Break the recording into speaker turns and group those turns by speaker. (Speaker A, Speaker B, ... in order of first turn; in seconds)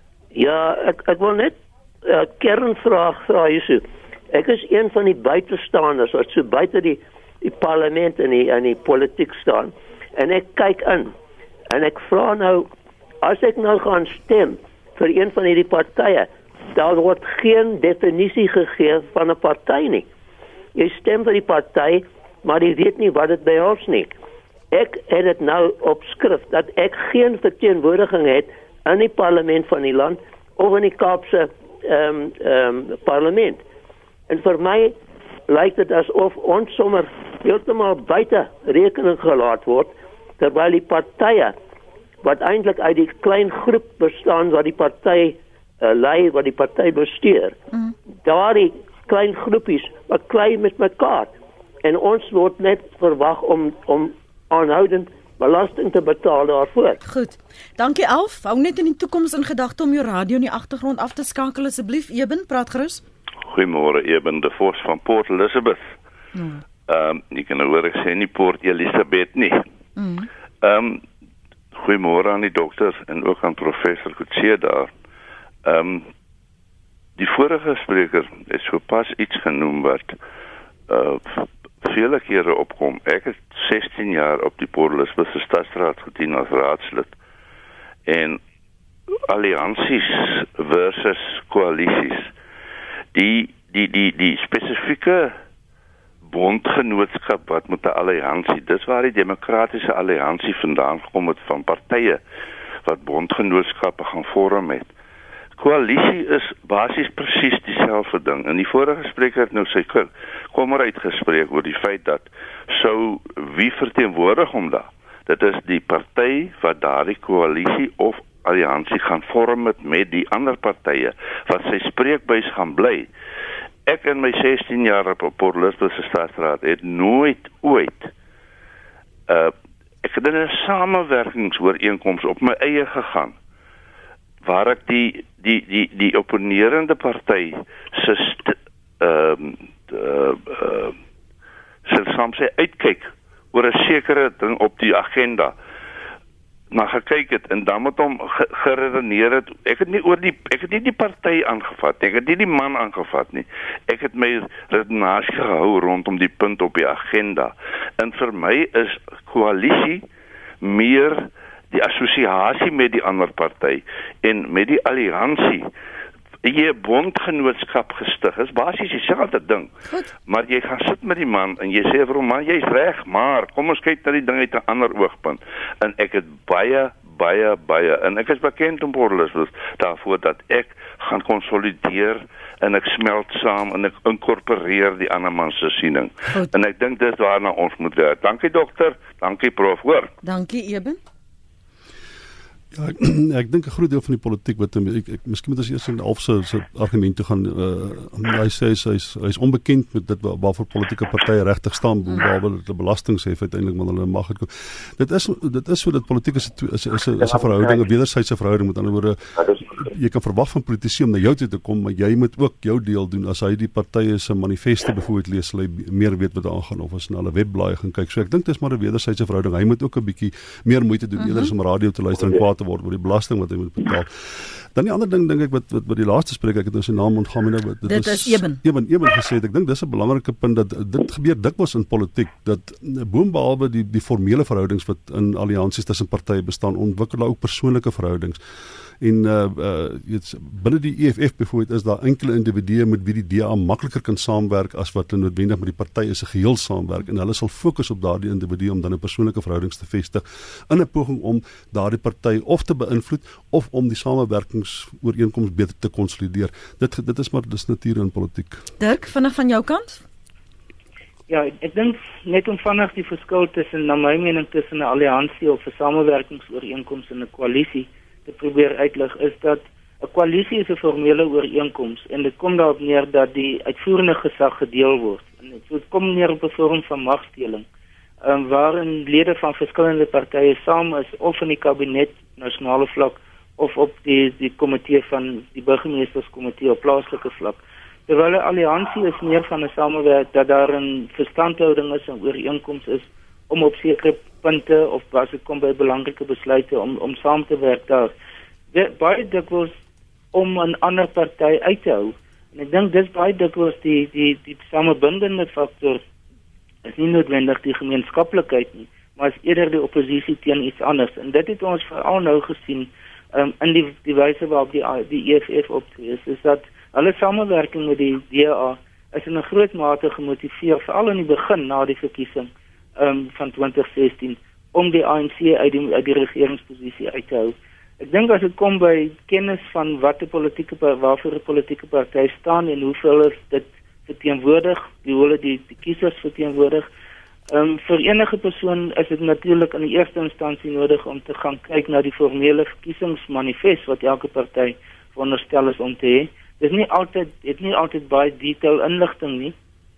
Speaker A: 0.3-11.2, 11.7-12.7, 13.2-20.1, 20.8-24.1, 24.7-33.6, 34.3-35.0, 35.5-41.6, 42.2-47.6, 48.2-51.3, 51.8-57.0
Speaker B: 57.0-63.0, 66.3-66.6, 70.0-70.3, 190.2-191.0, 221.2-221.5, 227.9-228.6, 258.8-260.0
Speaker C: 63.4-65.9, 66.9-69.6, 70.6-71.0, 71.7-74.9, 75.6-76.1, 77.2-80.2, 80.9-87.1, 88.1-88.4, 89.3-92.3, 93.1-95.4, 96.3-102.2, 102.8-104.9, 105.6-123.1, 123.9-128.1, 129.3-129.5, 130.0-133.4, 134.4-140.9, 141.9-145.6, 146.7-160.1, 160.6-165.7, 166.4-169.7, 170.3-190.2
Speaker D: 192.7-238.4, 239.0-258.6
Speaker E: 261.3-277.6, 278.2-298.1, 298.7-299.7, 300.3-306.0, 306.9-336.9, 337.5-349.5